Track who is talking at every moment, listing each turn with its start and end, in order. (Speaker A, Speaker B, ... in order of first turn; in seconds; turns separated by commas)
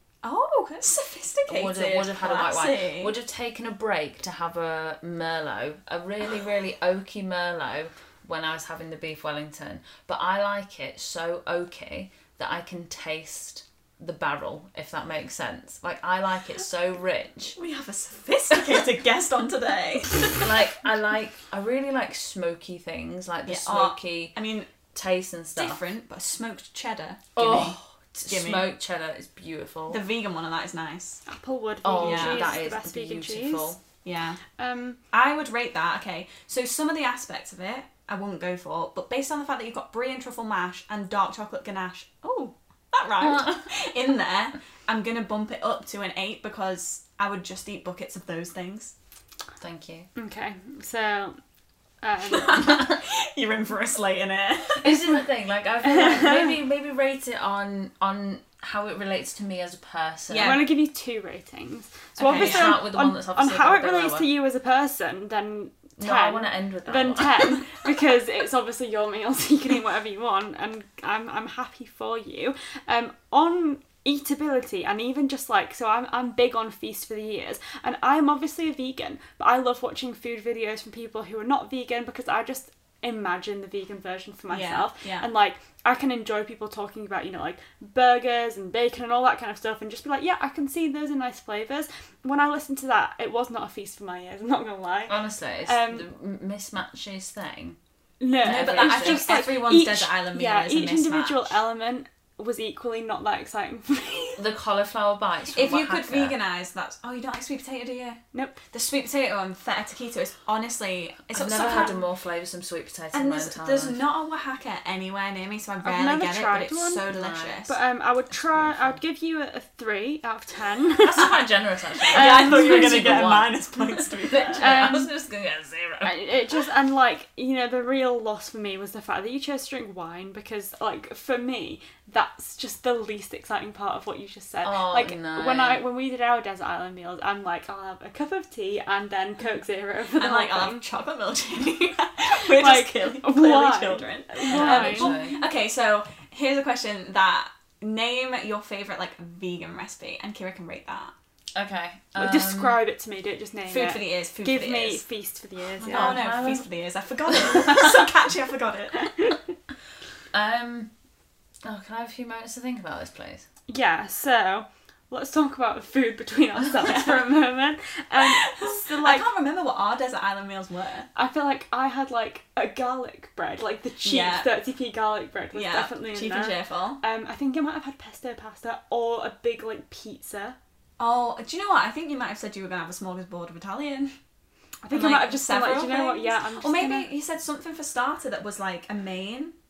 Speaker A: 0.2-3.1, Speaker B: 1.5-17.6, Speaker A: 17.6-20.5, Speaker B: 20.3-24.3, Speaker A: 23.5-24.7, Speaker B: 24.9-25.8, Speaker A: 25.6-28.7, Speaker B: 27.4-30.0, Speaker A: 29.9-31.2, Speaker C: 31.3-33.7, Speaker B: 31.8-33.8, Speaker A: 32.0-32.6, Speaker A: 34.0-34.4, Speaker C: 34.6-35.0, Speaker A: 35.1-48.9, Speaker B: 43.2-43.6, Speaker B: 49.6-50.1, Speaker C: 50.1-51.4, Speaker C: 52.0-52.8, Speaker A: 52.3-55.2, Speaker B: 54.8-60.6, Speaker C: 55.8-56.5, Speaker A: 60.3-60.7, Speaker C: 60.4-96.1, Speaker A: 62.2-62.8, Speaker B: 62.3-64.3, Speaker B: 66.0-67.7, Speaker A: 84.5-85.3, Speaker B: 95.1-97.8, Speaker C: 98.2-104.4, Speaker A: 98.4-101.5, Speaker B: 98.4-99.2, Speaker B: 104.4-106.3, Speaker A: 105.5-112.0, Speaker C: 108.3-108.6, Speaker B: 111.3-114.0, Speaker A: 113.1-117.7, Speaker C: 115.8-117.1, Speaker B: 117.1-117.6, Speaker C: 117.7-121.3, Speaker B: 118.5-119.0, Speaker B: 121.0-126.4, Speaker A: 122.1-124.8, Speaker C: 122.1-123.2, Speaker C: 124.5-125.1, Speaker C: 126.0-140.8, Speaker B: 134.6-135.8, Speaker A: 140.1-151.1, Speaker C: 142.4-145.2, Speaker B: 144.5-145.4, Speaker B: 151.5-152.8, Speaker C: 152.2-156.2, Speaker A: 153.7-155.0, Speaker A: 155.8-159.3, Speaker B: 155.8-156.7, Speaker B: 160.3-160.9, Speaker B: 161.6-163.4, Speaker C: 163.7-169.2, Speaker A: 166.8-167.3, Speaker A: 168.2-171.1, Speaker C: 171.1-180.6, Speaker A: 174.0-174.5, Speaker A: 175.5-177.0, Speaker A: 181.0-184.2, Speaker C: 184.8-187.1, Speaker A: 184.9-189.5